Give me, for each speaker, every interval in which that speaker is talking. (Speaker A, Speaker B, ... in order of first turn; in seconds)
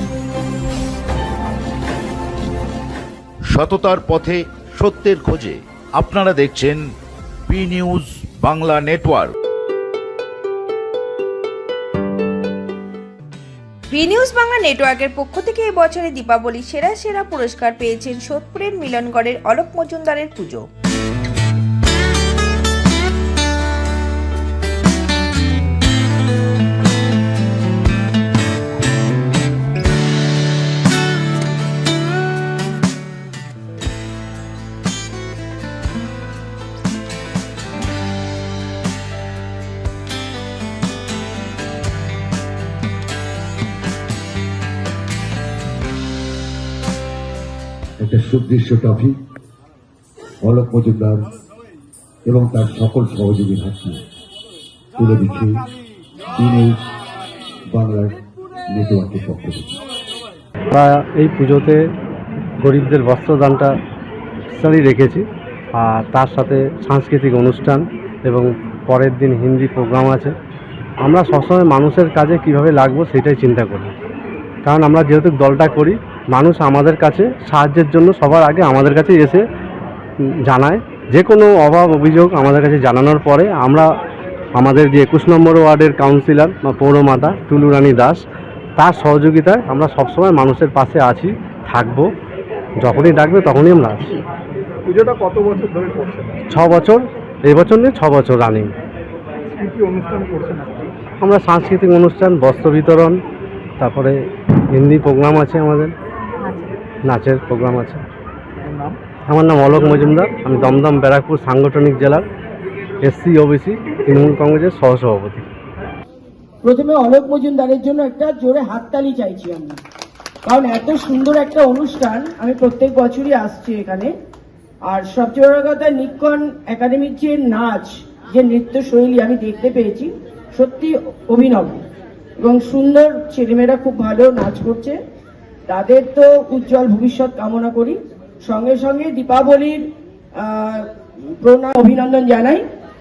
Speaker A: 3.5-6.8, 7.5-9.3
Speaker B: 13.9-20.7
Speaker C: 48.0-49.2, 50.4-51.3, 52.2-54.0, 55.0-55.7, 56.4-56.9, 57.7-58.2, 58.7-59.8
Speaker D: 60.7-61.8, 62.6-63.7, 64.5-70.3, 71.0-73.9, 74.7-79.5, 80.4-83.9, 84.5-88.2, 88.8-92.1, 92.8-94.2, 96.5-98.7, 101.2-103.2, 103.8-104.2, 104.7-105.9, 107.0-108.0, 109.3-112.3, 113.0-115.5
Speaker E: 94.9-96.5, 99.5-100.9, 108.6-109.0
Speaker F: 116.6-119.8, 120.5-124.1, 124.8-131.8, 132.4-135.0, 135.7-139.8, 140.4-140.9, 141.4-142.6